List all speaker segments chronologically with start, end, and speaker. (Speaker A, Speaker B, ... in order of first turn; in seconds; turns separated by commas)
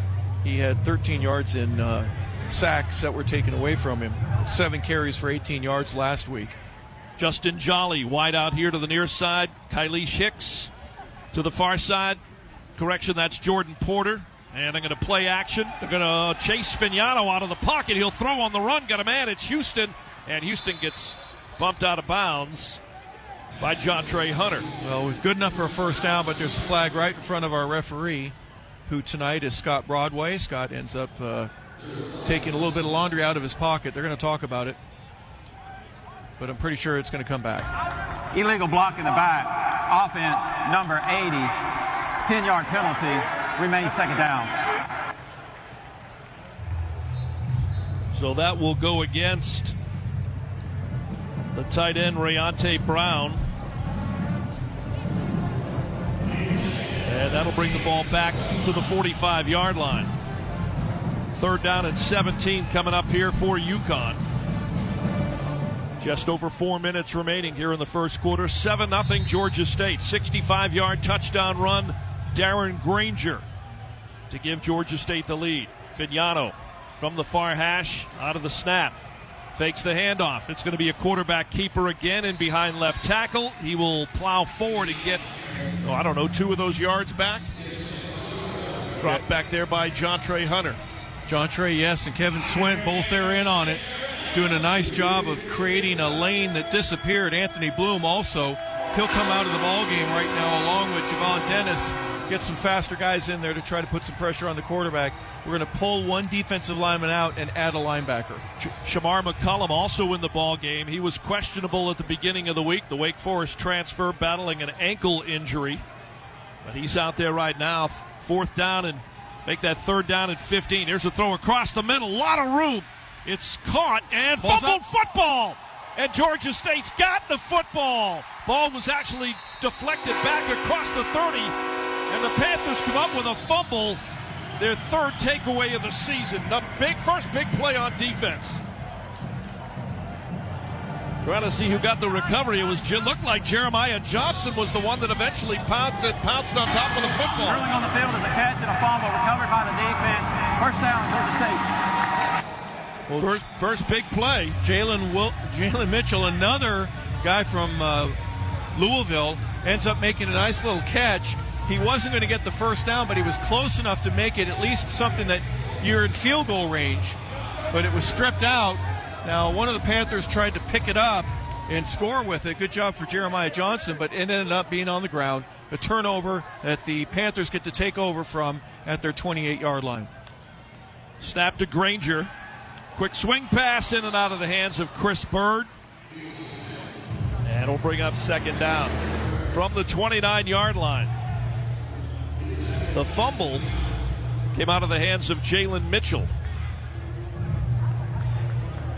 Speaker A: 0.4-6.5, Speaker B: 7.2-10.7, Speaker B: 11.3-12.2, Speaker B: 12.8-22.8, Speaker B: 23.6-24.7, Speaker A: 24.8-28.3, Speaker A: 28.9-31.5, Speaker A: 32.2-34.8, Speaker A: 36.4-37.7, Speaker C: 38.3-41.5, Speaker C: 42.2-44.5, Speaker B: 48.1-49.7, Speaker B: 51.5-53.5, Speaker B: 57.0-60.1, Speaker B: 61.4-64.2, Speaker B: 66.0-73.4, Speaker B: 74.3-79.0, Speaker B: 79.5-85.2, Speaker B: 85.8-87.5, Speaker B: 89.0-90.8, Speaker A: 89.0-89.2, Speaker A: 91.3-93.8, Speaker A: 94.3-108.5, Speaker B: 108.8-115.8, Speaker B: 116.6-131.5, Speaker A: 124.4-124.8, Speaker B: 132.1-134.0, Speaker B: 134.6-138.6, Speaker B: 141.2-147.6, Speaker C: 147.4-151.6, Speaker A: 153.1-153.4, Speaker B: 153.1-154.6, Speaker A: 154.6-158.2, Speaker A: 158.7-167.2, Speaker A: 167.7-180.1, Speaker B: 181.2-182.3, Speaker B: 182.9-185.7, Speaker B: 187.4-189.0, Speaker B: 189.5-191.1, Speaker B: 192.9-193.7, Speaker B: 194.5-196.3